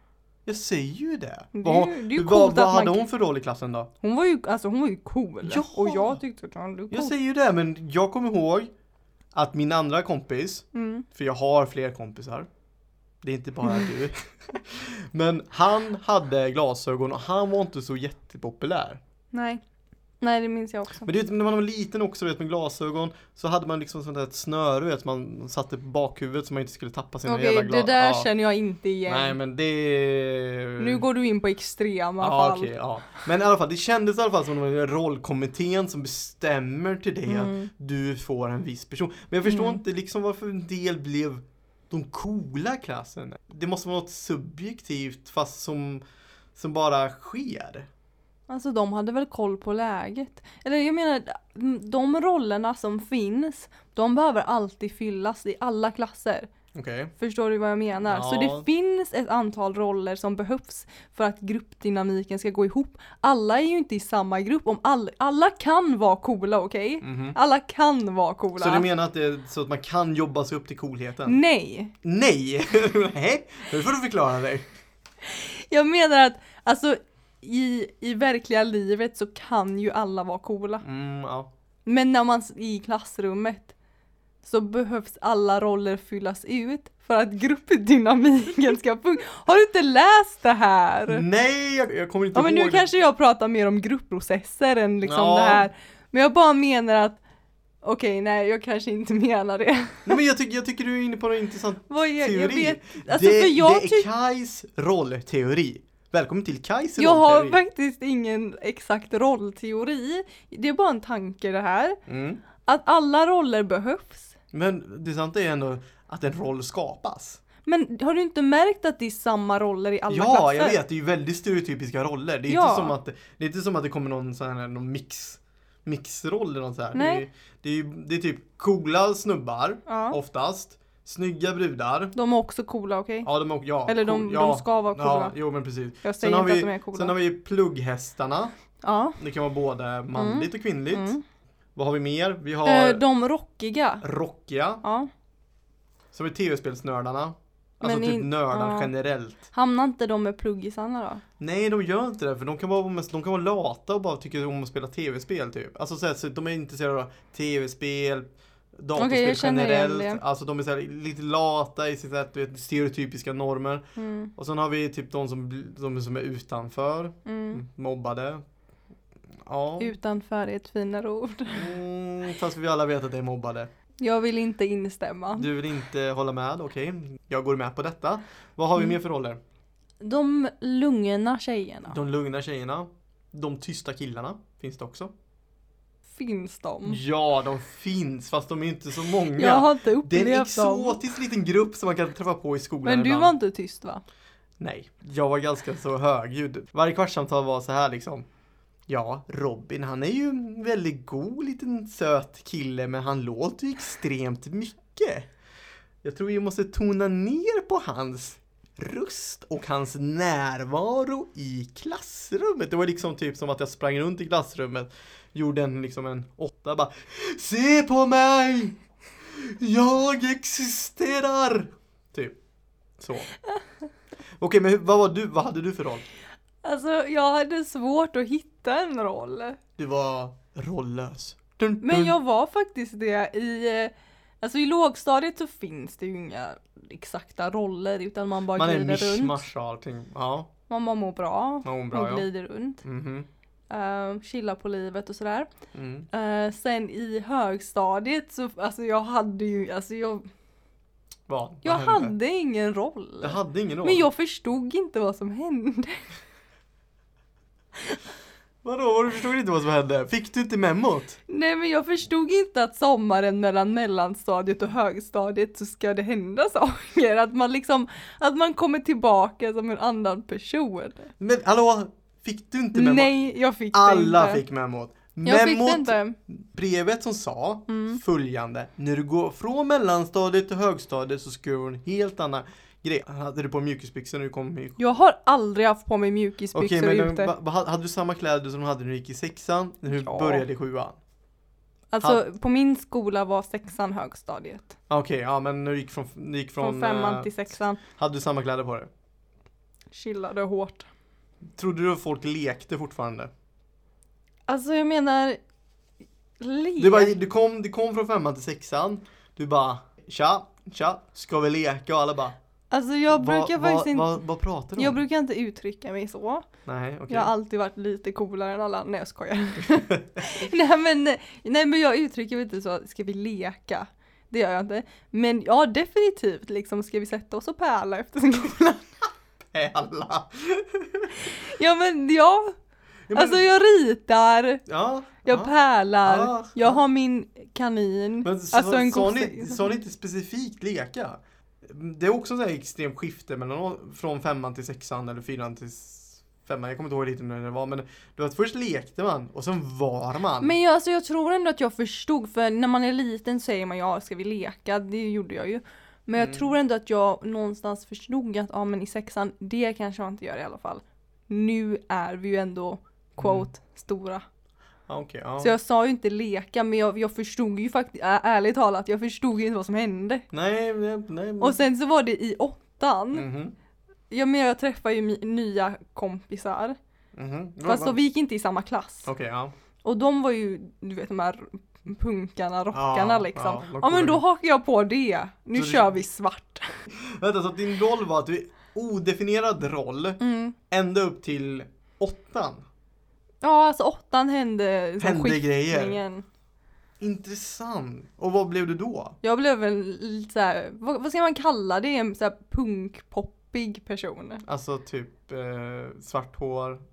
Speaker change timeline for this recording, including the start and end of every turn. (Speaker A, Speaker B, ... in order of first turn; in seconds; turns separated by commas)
Speaker A: 0.5-3.9, Speaker B: 1.5-3.0, Speaker B: 4.0-7.1, Speaker A: 5.4-6.2, Speaker A: 6.9-8.7, Speaker A: 9.3-12.5, Speaker B: 10.7-11.1, Speaker A: 13.2-19.0, Speaker B: 19.3-19.6, Speaker B: 20.2-21.1, Speaker A: 21.0-28.3, Speaker B: 27.2-29.4, Speaker A: 29.1-31.0, Speaker B: 30.8-32.7, Speaker A: 32.2-46.0, Speaker B: 37.3-37.7, Speaker B: 39.4-39.8, Speaker A: 46.5-47.9, Speaker B: 48.5-56.5, Speaker A: 56.7-57.1, Speaker B: 57.2-68.9, Speaker A: 58.1-58.6, Speaker A: 67.0-67.4, Speaker A: 68.6-71.4, Speaker B: 71.2-71.9, Speaker A: 72.0-74.7, Speaker B: 75.2-80.8, Speaker A: 80.8-81.5, Speaker B: 81.9-83.7, Speaker B: 84.4-91.2, Speaker A: 91.1-92.9, Speaker B: 92.3-97.2, Speaker A: 95.0-95.7, Speaker B: 97.8-100.2, Speaker A: 100.0-107.6, Speaker B: 101.9-104.1, Speaker B: 107.0-112.0, Speaker A: 112.1-112.4, Speaker B: 112.6-114.3, Speaker A: 114.5-117.4, Speaker B: 117.7-120.8, Speaker A: 120.1-132.1, Speaker B: 122.5-122.9, Speaker B: 126.9-127.2, Speaker B: 129.9-130.2, Speaker B: 132.1-133.3, Speaker A: 133.2-138.5, Speaker B: 133.9-135.4, Speaker B: 136.0-137.1, Speaker B: 138.8-139.2, Speaker A: 139.2-141.1, Speaker B: 140.1-141.2, Speaker A: 141.8-143.0, Speaker B: 142.6-144.0, Speaker A: 144.0-144.8, Speaker B: 144.8-145.1, Speaker A: 146.1-149.4, Speaker B: 147.8-148.9, Speaker B: 149.5-151.2, Speaker A: 151.4-168.4, Speaker B: 158.9-160.2, Speaker B: 163.9-164.3, Speaker B: 167.2-167.6, Speaker A: 169.4-169.9, Speaker B: 169.8-171.7, Speaker A: 171.5-173.7, Speaker B: 174.0-175.5, Speaker A: 175.3-179.4, Speaker B: 180.0-182.0, Speaker A: 181.9-185.1, Speaker B: 186.1-187.0, Speaker A: 186.8-193.3, Speaker B: 189.4-191.0, Speaker B: 192.8-194.0, Speaker A: 194.6-198.2, Speaker A: 198.9-205.3, Speaker A: 206.0-222.4, Speaker A: 223.0-223.3, Speaker A: 224.4-226.1, Speaker B: 226.6-229.6, Speaker A: 229.8-232.2, Speaker B: 231.8-239.4, Speaker A: 238.5-240.5, Speaker B: 240.7-242.8, Speaker A: 241.6-242.3, Speaker A: 242.8-243.3, Speaker B: 243.7-245.5, Speaker A: 245.7-246.1, Speaker B: 246.1-250.2, Speaker A: 251.3-252.1, Speaker B: 251.6-256.0, Speaker A: 253.2-254.1, Speaker A: 258.6-261.2, Speaker B: 261.3-271.1, Speaker A: 271.2-273.1, Speaker B: 272.7-274.4, Speaker A: 273.7-284.8, Speaker B: 275.2-276.2, Speaker B: 277.7-278.0, Speaker B: 284.8-287.3, Speaker A: 286.5-291.0, Speaker B: 289.9-290.4, Speaker B: 291.9-294.7, Speaker A: 294.9-298.9, Speaker B: 296.6-297.8, Speaker B: 299.9-300.9, Speaker A: 301.6-303.3, Speaker B: 304.5-305.4, Speaker B: 306.4-307.1, Speaker A: 306.8-312.4, Speaker B: 312.7-314.2, Speaker A: 313.1-315.0, Speaker B: 314.8-316.5, Speaker A: 316.6-317.3, Speaker B: 317.1-328.9, Speaker A: 319.8-320.4, Speaker A: 329.5-331.3, Speaker B: 331.1-332.5, Speaker A: 333.1-333.4, Speaker B: 333.1-334.6, Speaker A: 334.7-336.8, Speaker B: 335.2-339.8, Speaker A: 338.2-350.6, Speaker B: 350.4-364.2, Speaker A: 356.2-356.5, Speaker A: 363.2-363.5, Speaker A: 364.9-365.5, Speaker B: 365.4-370.2, Speaker A: 370.3-371.6, Speaker B: 371.4-373.3, Speaker A: 373.1-373.5, Speaker B: 374.1-376.8, Speaker A: 377.1-378.0, Speaker B: 377.6-379.1, Speaker A: 379.0-379.5, Speaker B: 379.8-386.7, Speaker A: 382.7-384.2, Speaker A: 385.5-386.0, Speaker A: 386.9-392.6, Speaker B: 390.2-390.6, Speaker B: 393.4-396.2, Speaker A: 395.0-396.0, Speaker A: 397.0-399.2, Speaker B: 399.2-404.4, Speaker A: 404.4-406.8